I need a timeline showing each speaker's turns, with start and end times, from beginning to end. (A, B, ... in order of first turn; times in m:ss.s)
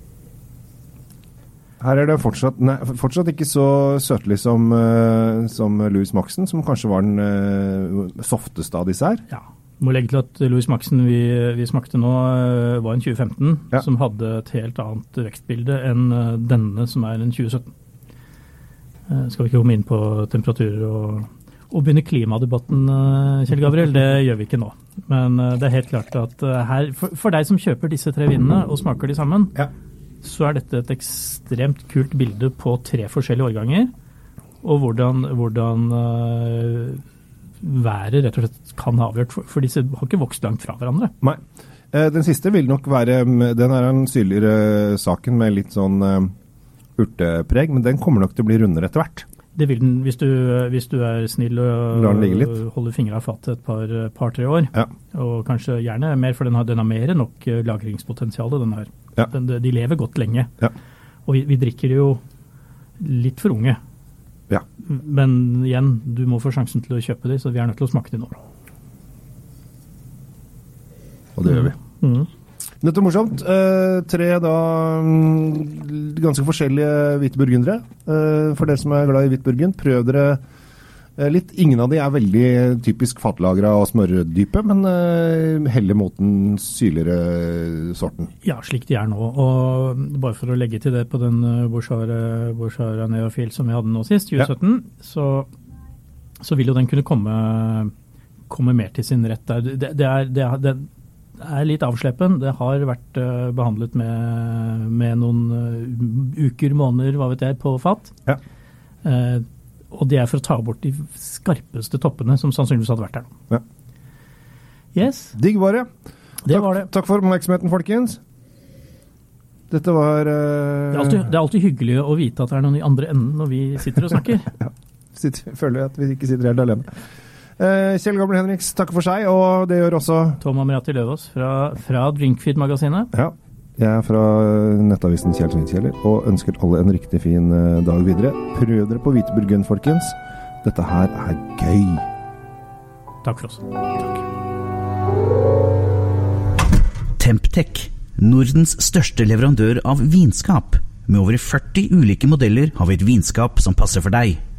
0:01.8-0:09.2 A
0:09.3-0:17.7 B
0:19.1-0:29.7 B
0:30.2-0:33.9 B
0:34.6-0:37.0 B
0:37.6-0:41.1 B
0:41.9-0:46.3 A
0:47.0-0:49.2 A
0:49.5-1:00.5 B
0:51.9-0:52.6 A
1:01.3-1:02.2 B
1:03.0-1:03.8 B
1:04.8-1:08.4 B
1:11.4-1:11.8 A
1:11.4-1:12.3 B
1:12.8-1:20.4 A
1:21.2-1:28.3 A
1:28.4-1:35.5 B
1:36.4-1:37.9 B
1:38.5-1:40.9 B
1:41.4-1:48.1 B
1:49.0-1:53.3 B
1:54.9-1:55.3 B
1:55.3-1:55.9 A
1:56.4-1:56.9 B
1:56.5-1:58.2 A
1:59.7-2:01.3 A
2:00.9-2:04.5 B
2:05.1-2:06.9 A
2:07.6-2:10.4 A
2:10.4-2:13.1 B
2:13.1-2:22.1 A
2:23.2-2:23.6 B
2:27.2-2:34.4 C